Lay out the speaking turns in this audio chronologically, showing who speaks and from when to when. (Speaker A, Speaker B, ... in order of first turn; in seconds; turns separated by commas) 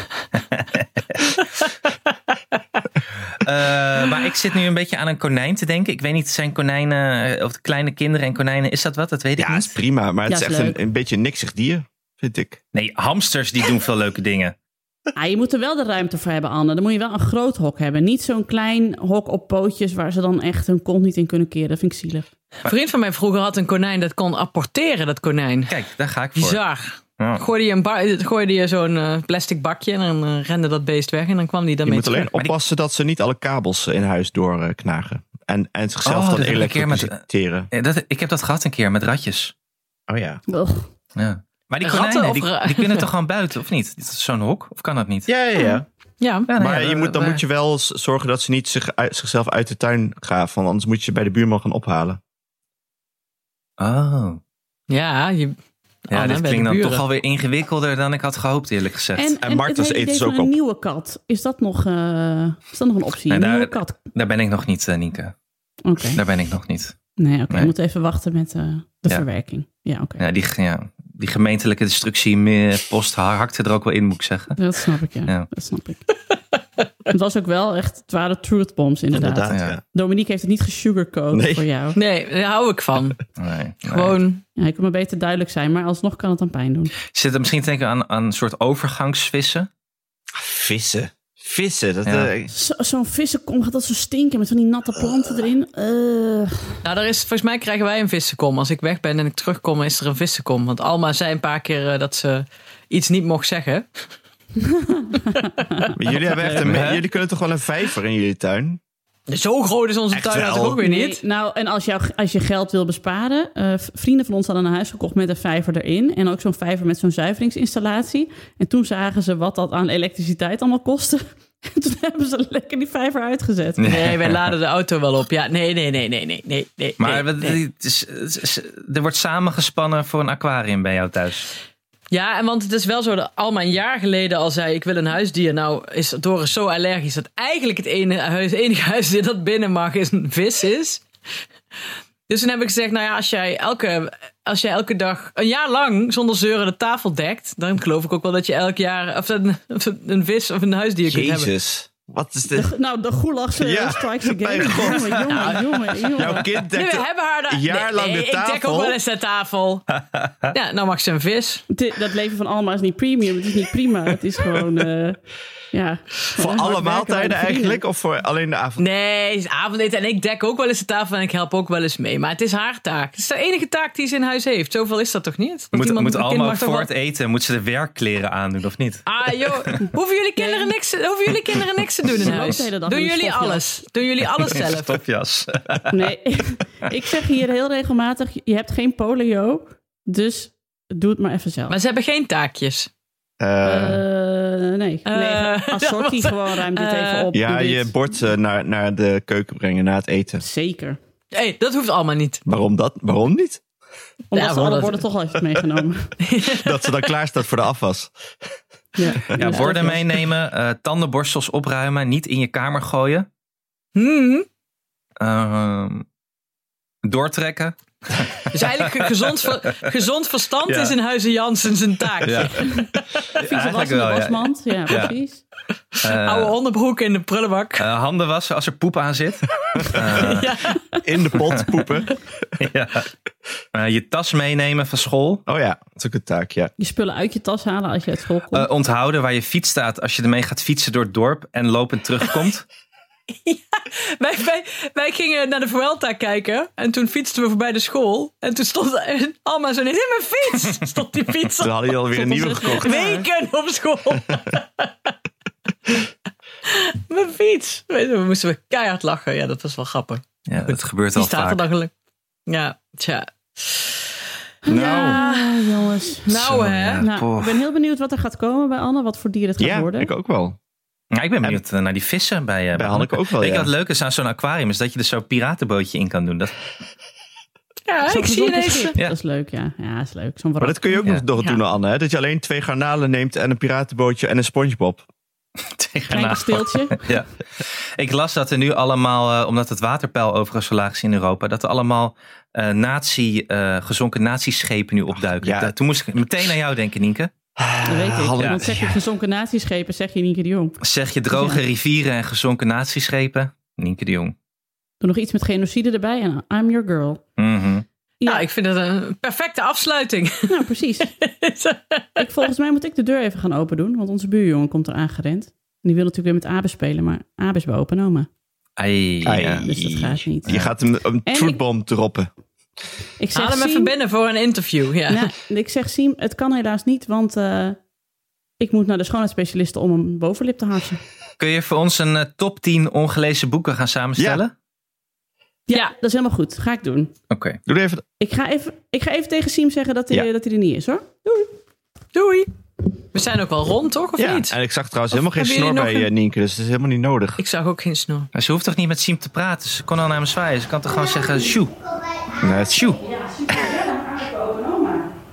Speaker A: 0.4-1.4, Speaker A: 3.3-9.7, Speaker B: 9.4-12.6, Speaker C: 10.3-10.8, Speaker A: 12.7-14.5, Speaker C: 15.2-22.3, Speaker D: 22.6-25.8, Speaker A: 25.7-26.6, Speaker D: 26.4-32.3, Speaker B: 31.9-37.7, Speaker A: 36.0-37.2, Speaker A: 37.7-39.5, Speaker B: 40.1-40.4, Speaker C: 40.5-40.8, Speaker A: 41.1-45.3, Speaker D: 41.8-43.1, Speaker B: 45.3-45.8, Speaker D: 46.2-46.5, Speaker A: 46.5-47.2, Speaker B: 46.6-52.2, Speaker A: 53.8-54.4, Speaker D: 54.9-55.5, Speaker D: 56.1-57.0, Speaker A: 56.1-59.4, Speaker C: 59.1-64.0, Speaker B: 59.4-60.5, Speaker A: 63.3-65.3, Speaker C: 65.8-66.2, Speaker A: 66.1-67.0, Speaker C: 67.2-70.2, Speaker A: 70.2-74.6, Speaker C: 74.5-76.0, Speaker C: 77.1-82.0, Speaker B: 79.1-79.8, Speaker A: 79.5-79.8, Speaker B: 81.3-81.6, Speaker D: 81.9-83.2, Speaker A: 83.4-84.2, Speaker D: 83.8-84.4, Speaker C: 84.5-86.9, Speaker A: 87.1-89.7, Speaker B: 90.3-92.5, Speaker A: 92.0-92.3, Speaker C: 92.5-96.8, Speaker D: 96.8-104.0, Speaker C: 104.6-106.7, Speaker B: 105.9-108.8, Speaker A: 106.6-107.0, Speaker D: 109.3-111.2, Speaker B: 110.1-110.8, Speaker C: 110.8-124.0, Speaker A: 123.8-124.4, Speaker D: 123.9-127.6, Speaker A: 127.0-131.5, Speaker D: 132.1-141.0, Speaker D: 142.3-151.5, Speaker B: 151.0-152.7, Speaker C: 152.5-156.4, Speaker B: 153.6-159.0, Speaker D: 156.1-159.9, Speaker A: 159.9-160.5, Speaker D: 160.5-161.6, Speaker C: 161.7-167.8, Speaker B: 166.4-168.8, Speaker D: 168.8-176.9, Speaker A: 175.7-179.8, Speaker D: 179.1-185.0, Speaker C: 179.8-180.7, Speaker C: 182.1-183.6, Speaker A: 184.5-186.1, Speaker C: 185.9-191.8, Speaker D: 191.7-192.9, Speaker B: 193.4-194.0, Speaker C: 193.6-198.0, Speaker D: 195.1-197.3, Speaker B: 197.3-200.4, Speaker C: 200.4-201.0, Speaker D: 201.3-202.4, Speaker B: 202.4-203.6, Speaker C: 204.3-206.1, Speaker D: 204.3-205.0, Speaker D: 206.2-206.8, Speaker B: 206.4-208.1, Speaker C: 209.0-210.1, Speaker A: 209.3-213.3, Speaker D: 213.9-214.4, Speaker A: 215.2-216.1, Speaker A: 217.0-219.4, Speaker D: 218.5-223.0, Speaker A: 220.7-220.9, Speaker A: 222.2-222.8, Speaker C: 222.5-225.4, Speaker A: 223.3-225.1, Speaker D: 225.9-227.8, Speaker A: 226.0-226.5, Speaker A: 227.8-230.6, Speaker D: 230.1-230.8, Speaker B: 231.0-232.5, Speaker A: 232.6-233.1, Speaker A: 233.7-235.4, Speaker B: 235.5-236.7, Speaker C: 236.8-238.7, Speaker A: 238.5-242.6, Speaker D: 243.3-251.8, Speaker B: 251.6-252.9, Speaker C: 252.1-253.3, Speaker D: 252.6-255.1, Speaker D: 256.6-261.9, Speaker A: 260.5-261.7, Speaker D: 262.5-264.0, Speaker C: 264.6-266.3, Speaker B: 264.7-265.2, Speaker D: 264.9-267.1, Speaker A: 266.3-267.6, Speaker C: 267.0-270.1, Speaker B: 269.6-270.6, Speaker A: 271.1-276.5, Speaker B: 272.7-273.7, Speaker D: 277.9-278.9, Speaker C: 278.1-281.6, Speaker B: 280.6-285.1, Speaker A: 285.8-287.3, Speaker C: 286.1-287.1, Speaker A: 288.0-297.3, Speaker B: 295.4-295.7, Speaker B: 297.6-298.9, Speaker C: 297.9-300.8, Speaker A: 300.8-304.3, Speaker C: 301.3-301.6, Speaker C: 305.0-307.2, Speaker A: 307.4-307.8, Speaker C: 308.2-308.4, Speaker D: 308.2-310.6, Speaker C: 310.5-311.1, Speaker D: 311.2-312.2, Speaker C: 312.2-318.3, Speaker A: 318.8-319.6, Speaker B: 319.2-322.3, Speaker C: 319.4-320.6, Speaker A: 320.5-320.7, Speaker C: 321.2-321.6, Speaker C: 323.2-323.9, Speaker D: 323.3-325.3, Speaker C: 325.1-327.8, Speaker C: 328.6-331.0, Speaker A: 331.4-334.5, Speaker B: 334.2-334.4, Speaker C: 335.7-337.1, Speaker A: 337.3-337.6, Speaker B: 337.6-338.0, Speaker C: 338.2-341.1, Speaker D: 342.1-342.5, Speaker D: 343.1-344.6, Speaker B: 344.2-347.4, Speaker D: 345.1-346.1, Speaker D: 347.4-348.3, Speaker A: 348.3-351.8, Speaker B: 352.4-352.8, Speaker A: 352.7-353.0, Speaker C: 353.0-355.1